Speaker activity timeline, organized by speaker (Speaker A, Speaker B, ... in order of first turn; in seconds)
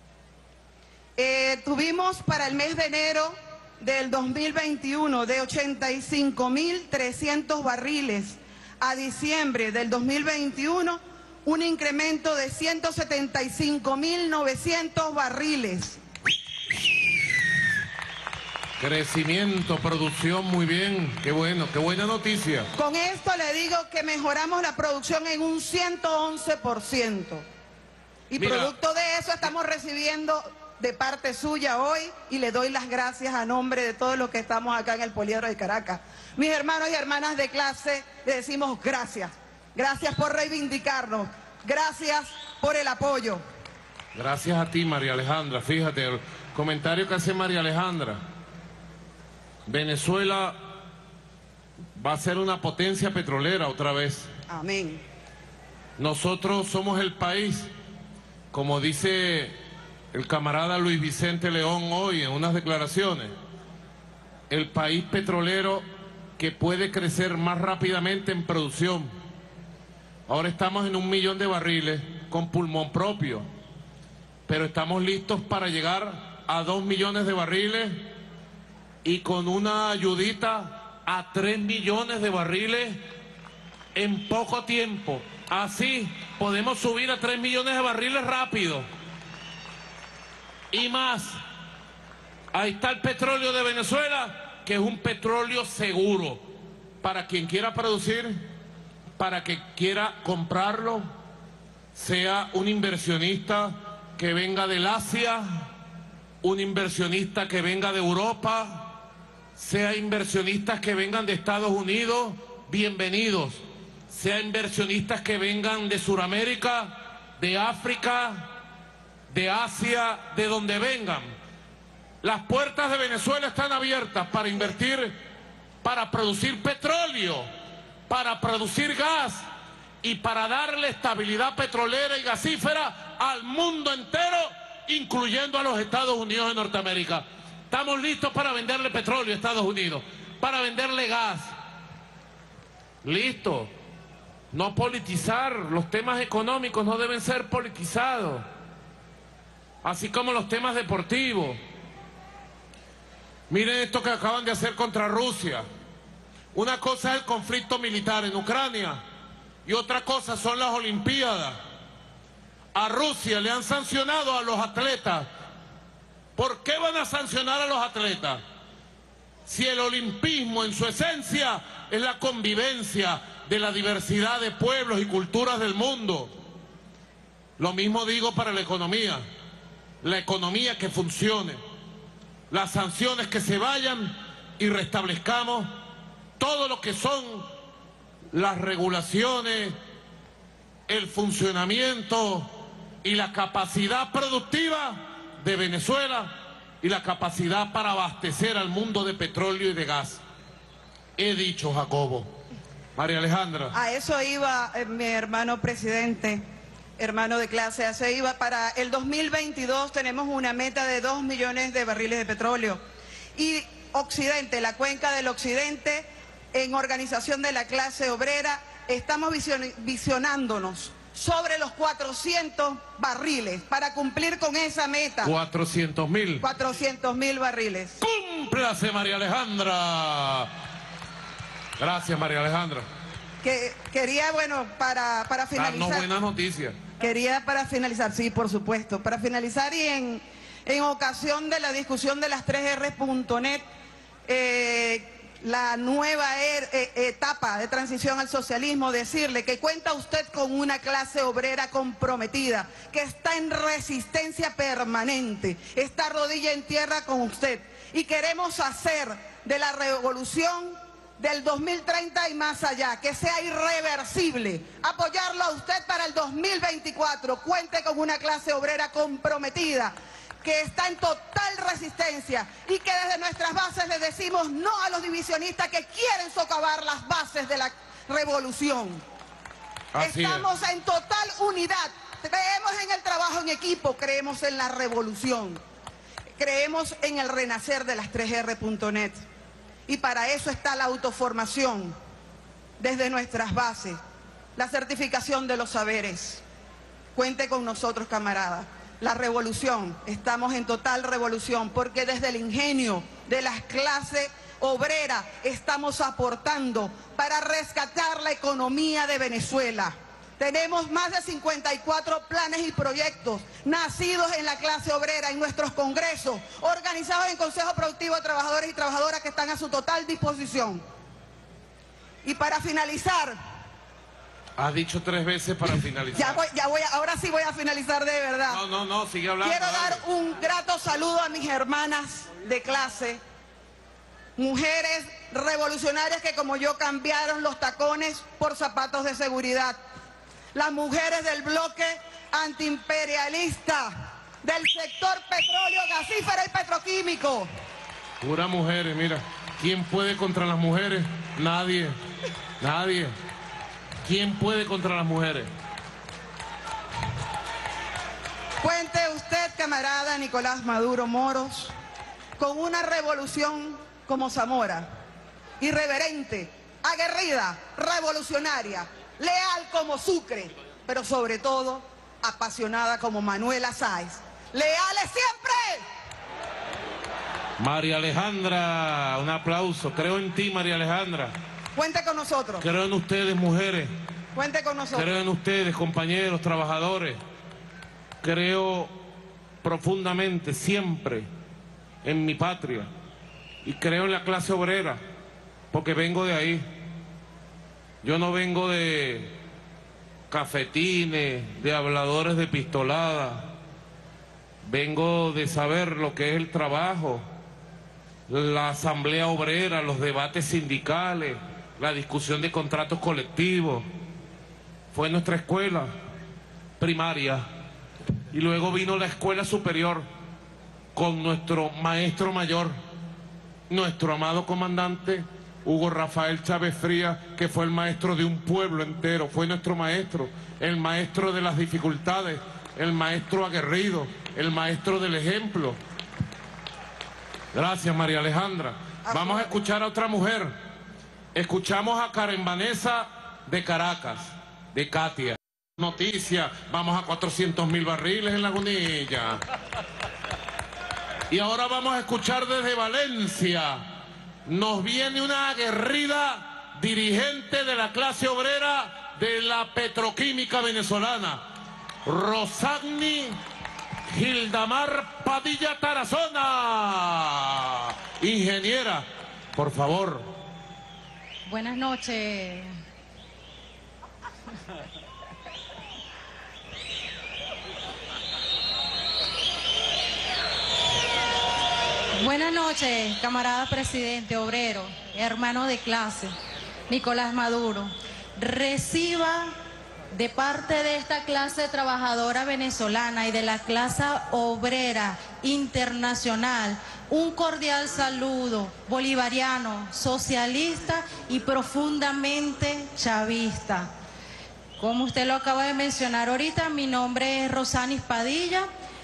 Speaker A: 1.2-16.0, 22.8-27.4, 28.3-43.4, 54.5-55.0, 203.7-206.4, 207.0-212.8, 213.3-225.3, 226.4-228.0, 233.4-236.1, 237.0-243.6, 244.3-279.0, 280.0-285.6, 286.4-289.2, 289.9-291.9, 292.8-294.0, 294.6-296.4, 297.1-320.8, 322.2-323.4, 326.1-328.6, 329.4-333.2, 334.4-339.8, 340.5-347.5, 358.6-361.7, 362.4-364.9, 365.6-375.8, 381.8-382.7, 384.3-385.2, 439.1-439.5
Speaker B: 18.8-22.7, 28.4-28.7, 44.1-48.2, 49.6-50.7, 51.9-54.3, 56.0-57.7, 58.5-59.6, 60.1-63.3, 64.5-65.8, 66.4-69.1, 70.3-73.5, 74.5-78.2, 79.0-83.0, 83.9-88.9, 90.7-91.4, 92.5-96.4, 97.0-98.5, 99.2-101.1, 101.9-105.7, 106.4-109.0, 109.5-118.6, 119.3-121.3, 122.2-125.2, 125.8-127.5, 128.1-129.4, 130.0-141.5, 143.0-143.7, 144.5-148.4, 149.8-151.6, 153.5-155.6, 156.5-159.0, 159.6-161.6, 162.7-165.3, 166.3-168.4, 169.4-176.3, 177.6-179.2, 180.0-181.6, 182.5-185.8, 186.4-187.5, 188.3-189.8, 190.9-200.2, 201.2-202.3, 202.9-203.8, 225.2-226.4, 228.0-230.5, 231.8-232.9, 235.6-236.8, 279.9-280.5, 324.6-326.4, 328.5-330.0, 348.2-352.0, 352.6-353.1, 354.0-355.5, 377.6-381.3, 382.6-383.9, 384.9-387.2, 388.2-388.9, 389.6-391.3, 392.0-392.9, 393.6-395.0, 395.7-396.7, 398.0-399.4, 400.3-403.5, 404.6-407.2, 408.3-413.9, 414.9-415.9, 416.8-417.4, 418.3-420.1, 420.9-422.8, 423.7-435.8, 437.5-440.6, 441.3-449.4, 451.3-453.9, 454.4-461.5, 462.0-463.4, 464.1-470.3
Speaker C: 471.4-472.7, 482.1-486.4, 486.9-489.5, 490.1-503.9, 504.8-508.7